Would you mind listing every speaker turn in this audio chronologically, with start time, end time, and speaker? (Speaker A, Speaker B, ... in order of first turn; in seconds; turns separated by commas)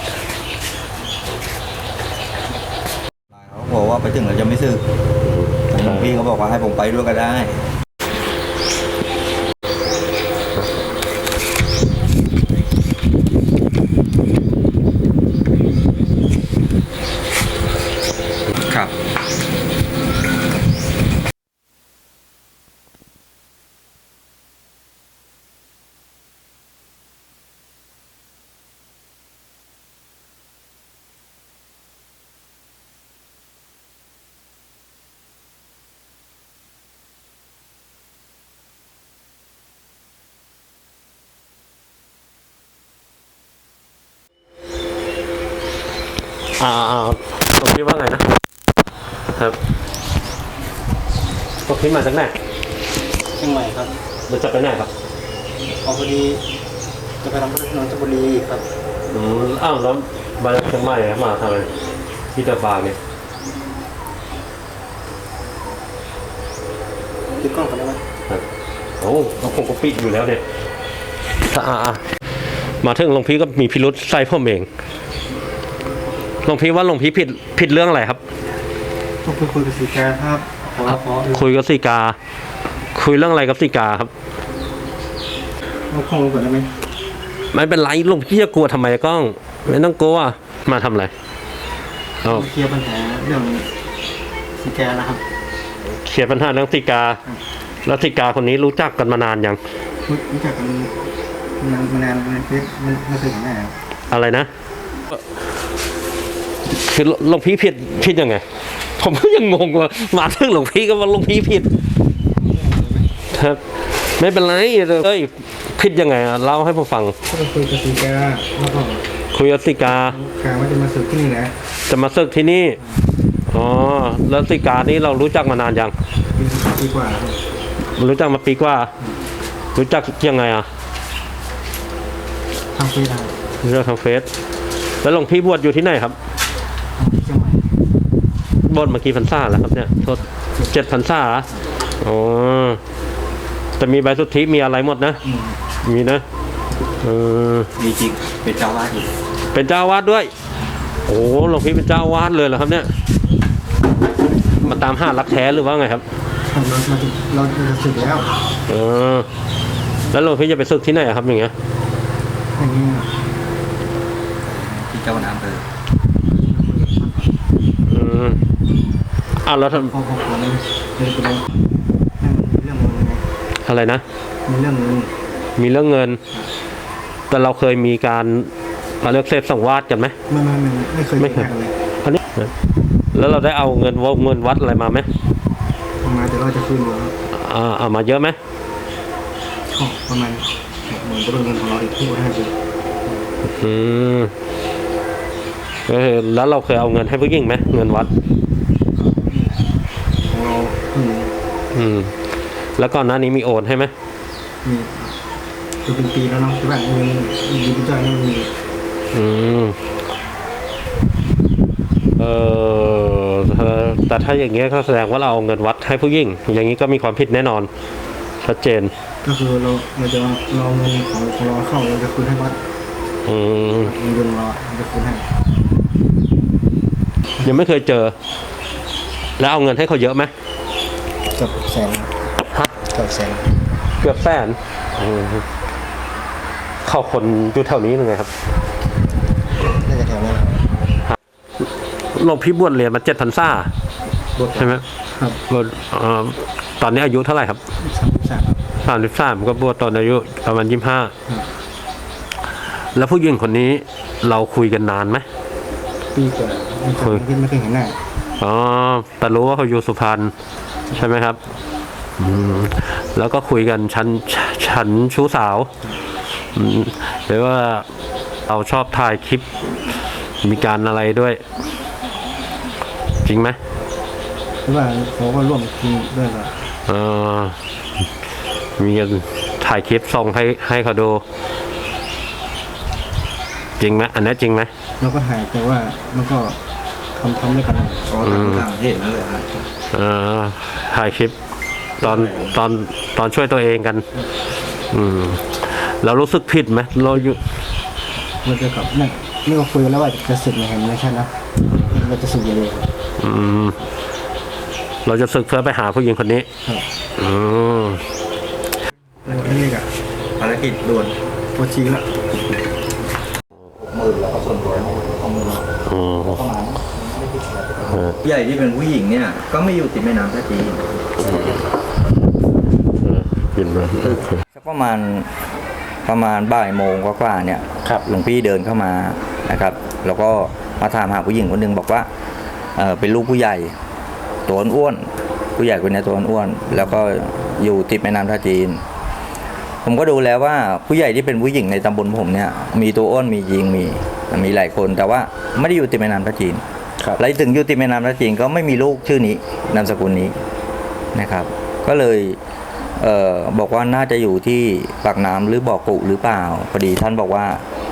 Speaker A: 3.3-4.8, Speaker B: 5.3-6.1, Speaker A: 5.7-7.7, Speaker A: 18.5-18.9, Speaker B: 46.6-48.3, Speaker B: 51.6-52.4, Speaker C: 53.3-53.9, Speaker B: 54.3-54.9, Speaker C: 55.8-56.4, Speaker C: 57.2-58.7, Speaker B: 59.1-61.7, Speaker B: 62.4-63.0, Speaker C: 67.4-68.0, Speaker B: 69.0-70.4, Speaker B: 71.4-72.0, Speaker B: 72.8-74.7, Speaker B: 76.4-78.2, Speaker C: 79.2-81.4, Speaker B: 80.9-82.2, Speaker B: 83.0-84.1, Speaker C: 85.9-86.8, Speaker B: 87.5-91.1, Speaker C: 92.2-93.7, Speaker C: 94.6-95.2, Speaker B: 95.9-97.2, Speaker B: 97.8-99.6, Speaker C: 100.0-103.8, Speaker B: 104.1-104.5, Speaker B: 105.1-105.4, Speaker B: 106.7-111.7, Speaker C: 112.4-113.1, Speaker B: 113.3-117.2, Speaker C: 117.3-119.0, Speaker B: 119.3-120.2, Speaker C: 119.9-121.5, Speaker B: 121.9-122.8, Speaker B: 123.5-125.9, Speaker C: 126.3-127.4, Speaker B: 127.9-128.9, Speaker B: 129.8-130.7, Speaker C: 132.7-133.4, Speaker B: 133.6-134.3, Speaker B: 135.0-136.2, Speaker C: 137.0-137.7, Speaker B: 138.6-141.5, Speaker B: 142.0-142.8, Speaker B: 143.8-145.2, Speaker C: 145.2-145.6, Speaker B: 145.8-146.2, Speaker B: 147.0-147.7, Speaker A: 147.8-149.1, Speaker B: 149.5-150.3, Speaker B: 151.1-152.9, Speaker B: 154.6-156.0, Speaker C: 156.5-158.3, Speaker B: 158.7-159.3, Speaker B: 160.1-161.5, Speaker C: 162.6-163.3, Speaker A: 164.4-165.7, Speaker C: 166.2-167.3, Speaker B: 167.9-168.4, Speaker B: 169.4-169.9, Speaker C: 169.7-171.6, Speaker C: 172.2-173.2, Speaker B: 173.6-174.0, Speaker C: 174.5-175.1, Speaker B: 175.6-176.2, Speaker B: 177.3-180.2, Speaker C: 180.3-181.7, Speaker B: 181.2-181.5, Speaker B: 182.0-182.5, Speaker B: 183.1-185.1, Speaker C: 186.0-187.1, Speaker B: 187.3-188.4, Speaker C: 189.7-192.5, Speaker B: 193.5-194.3, Speaker B: 195.9-198.1, Speaker C: 199.0-199.6, Speaker C: 200.3-201.3, Speaker B: 201.7-202.1, Speaker B: 202.8-203.9, Speaker C: 204.6-205.2, Speaker C: 205.8-208.5, Speaker B: 209.1-209.8, Speaker B: 212.2-217.7, Speaker B: 218.4-218.9, Speaker C: 219.2-222.6, Speaker B: 223.3-223.9, Speaker C: 223.8-225.3, Speaker B: 227.4-228.2, Speaker B: 229.4-230.3, Speaker C: 231.3-232.1, Speaker C: 232.8-233.5, Speaker B: 234.0-235.5, Speaker B: 236.8-238.3, Speaker C: 239.6-240.6, Speaker B: 242.1-243.7, Speaker B: 244.6-244.8, Speaker C: 245.1-245.4, Speaker B: 245.5-247.6, Speaker C: 247.8-248.6, Speaker B: 248.8-251.1, Speaker B: 252.8-255.2, Speaker C: 256.1-258.0, Speaker B: 258.4-260.3, Speaker B: 260.9-261.4, Speaker B: 262.2-265.7, Speaker B: 266.5-267.9, Speaker B: 268.5-269.4, Speaker B: 270.4-271.4, Speaker B: 273.2-273.6, Speaker C: 274.6-276.6, Speaker B: 276.9-277.6, Speaker B: 278.8-281.2, Speaker B: 283.8-284.7, Speaker C: 285.0-286.6, Speaker C: 287.1-288.1, Speaker A: 288.1-289.7, Speaker B: 288.2-288.7, Speaker B: 289.9-291.4, Speaker B: 292.0-294.1, Speaker C: 292.0-292.4, Speaker B: 294.9-297.4, Speaker C: 298.4-302.9, Speaker B: 303.2-303.8, Speaker B: 305.1-306.5, Speaker B: 307.2-308.0, Speaker C: 309.2-309.9, Speaker A: 310.4-311.2, Speaker C: 311.6-312.1, Speaker A: 313.7-321.4, Speaker B: 315.9-316.4, Speaker B: 321.2-321.6, Speaker B: 323.0-324.4, Speaker A: 324.0-325.3, Speaker A: 326.1-332.1, Speaker A: 332.8-333.7, Speaker A: 334.5-338.8, Speaker A: 339.8-346.6, Speaker A: 347.2-350.4, Speaker A: 351.1-352.4, Speaker A: 353.0-357.6